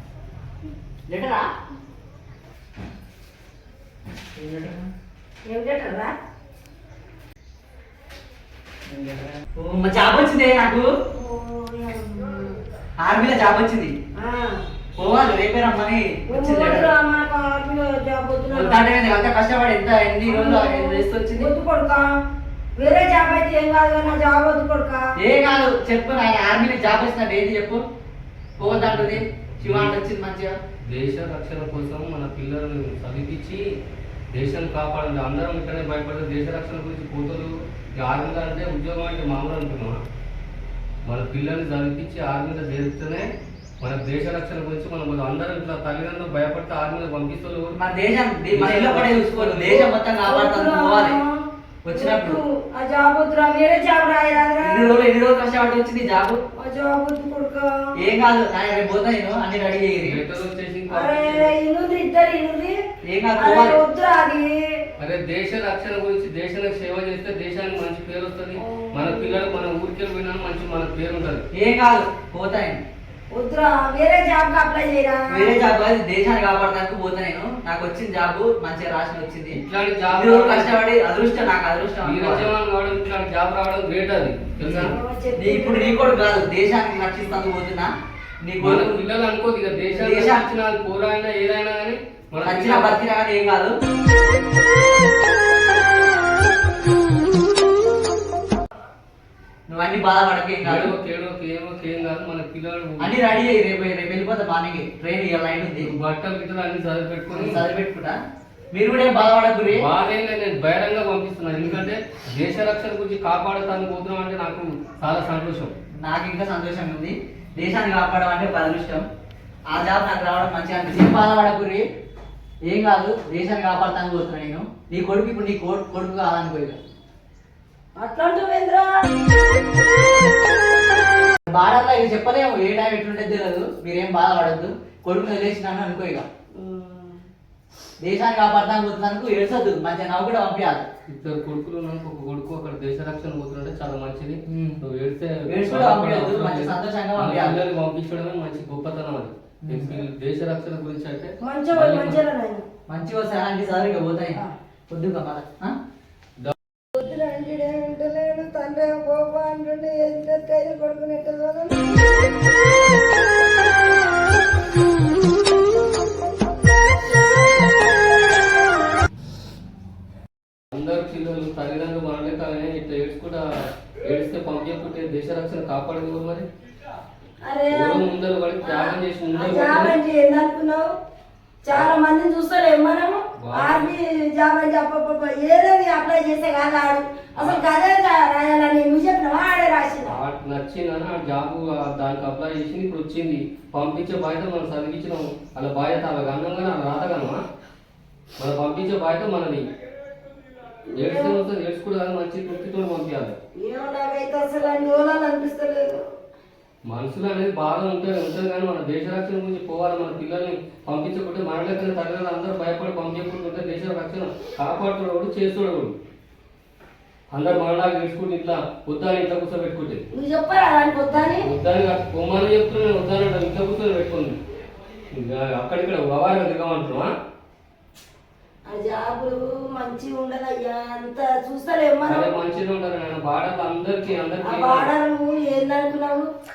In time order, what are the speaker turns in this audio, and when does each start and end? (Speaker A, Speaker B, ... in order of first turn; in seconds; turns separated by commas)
Speaker A: 1.1-1.5, Speaker A: 4.4-4.9, Speaker B: 5.5-6.1, Speaker A: 8.9-10.9, Speaker B: 11.1-12.6, Speaker A: 13.0-13.9, Speaker B: 14.2-14.6, Speaker A: 15.0-16.9, Speaker B: 16.3-18.9, Speaker A: 18.5-21.5, Speaker B: 20.3-22.1, Speaker B: 22.8-25.0, Speaker A: 25.2-27.8, Speaker A: 28.6-30.6, Speaker C: 28.6-29.9, Speaker C: 30.9-33.7, Speaker C: 34.3-40.0, Speaker C: 41.1-47.8, Speaker A: 47.8-51.2, Speaker C: 48.5-49.8, Speaker B: 49.6-51.3, Speaker A: 51.8-52.4, Speaker B: 51.9-55.0, Speaker A: 54.6-56.4, Speaker B: 56.5-57.7, Speaker A: 58.0-60.2, Speaker C: 60.0-61.5, Speaker B: 60.9-62.8, Speaker A: 63.0-63.8, Speaker B: 63.4-64.6, Speaker C: 65.0-71.5, Speaker B: 68.6-69.6, Speaker A: 71.5-72.8, Speaker B: 73.3-75.6, Speaker A: 75.3-82.5, Speaker C: 79.5-80.8, Speaker C: 82.0-84.9, Speaker A: 84.7-87.9, Speaker B: 84.8-86.2, Speaker A: 88.4-88.9, Speaker C: 88.6-93.0, Speaker A: 89.9-90.5, Speaker A: 92.4-93.7, Speaker A: 99.7-100.9, Speaker C: 100.6-103.3, Speaker A: 103.0-105.9, Speaker C: 105.8-107.6, Speaker A: 107.3-108.2, Speaker A: 108.7-109.9, Speaker C: 109.7-115.7, Speaker A: 116.0-119.0, Speaker A: 119.7-121.8, Speaker A: 122.7-126.8, Speaker B: 128.0-128.9, Speaker A: 131.5-136.3, Speaker B: 136.6-137.2, Speaker A: 138.0-140.9, Speaker C: 141.1-152.2, Speaker A: 144.5-144.8, Speaker A: 145.5-147.6, Speaker A: 149.6-149.9, Speaker B: 151.4-152.7, Speaker A: 152.9-155.8, Speaker B: 156.9-162.0, Speaker C: 170.7-173.5, Speaker C: 174.0-176.5, Speaker B: 177.4-178.0, Speaker C: 177.7-180.0, Speaker B: 178.6-180.9, Speaker B: 181.6-190.2, Speaker C: 183.4-183.9, Speaker C: 187.4-187.6, Speaker C: 190.1-197.4, Speaker C: 198.4-199.7, Speaker B: 200.9-201.4, Speaker C: 200.9-203.4, Speaker B: 203.6-205.9, Speaker C: 206.9-215.9, Speaker C: 217.3-220.0, Speaker B: 220.1-221.5, Speaker C: 221.4-224.4, Speaker C: 225.1-227.1, Speaker B: 228.7-232.3, Speaker C: 232.1-234.9, Speaker B: 234.4-236.3